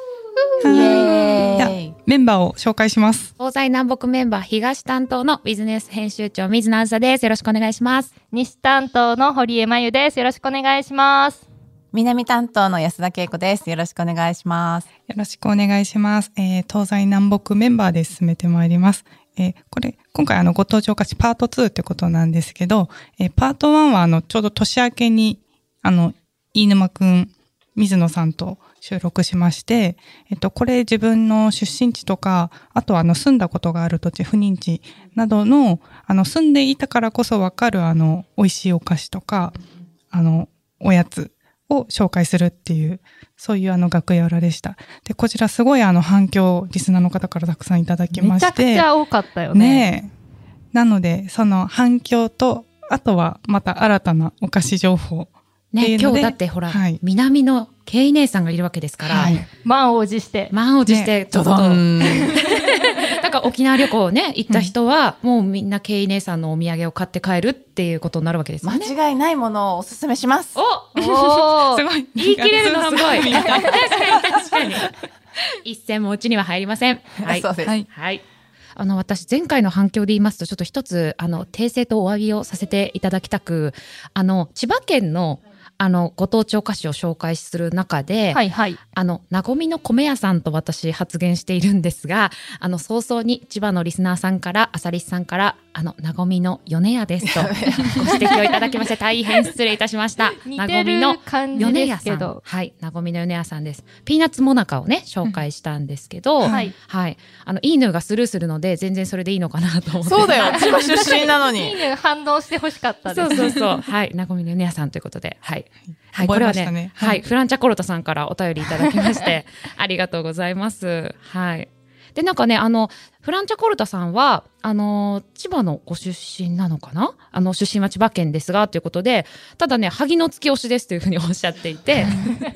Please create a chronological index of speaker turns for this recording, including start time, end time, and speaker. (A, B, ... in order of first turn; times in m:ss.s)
0:00.6-0:03.3 A
0:00.6-0:01.9 B
0:00.7-0:01.5 C
0:03.4-0:08.1 D
0:08.3-0:11.4 C
0:11.9-0:14.9 B
0:15.1-0:39.6 A
0:40.1-0:48.9 A
0:48.1-0:49.9 C
0:49.5-0:50.1 A
0:50.7-0:57.0 A
0:55.7-0:59.4 D
0:59.0-0:59.4 B
0:59.6-1:00.5 C
1:00.5-1:08.9 D
1:00.9-1:01.1 A
1:01.3-1:02.4 B
1:04.5-1:04.7 A
1:08.6-1:10.6 B
1:10.5-1:10.9 D
1:10.9-1:11.8 C
1:11.0-1:14.6 A
1:12.2-1:14.9 D
1:13.2-1:13.6 C
1:15.6-1:18.2 D
1:17.2-1:17.8 B
1:18.8-1:28.4 D
1:28.3-1:28.8 C
1:28.9-1:51.1 D
1:37.2-1:38.4 B
1:40.4-1:42.4 C
1:41.6-1:41.8 A
1:46.4-1:46.7 A
1:46.4-1:46.7 C
1:50.0-1:51.8 B
1:50.3-1:53.6 C
1:53.1-2:12.3 D
1:56.2-1:57.2 A
2:12.0-2:12.4 A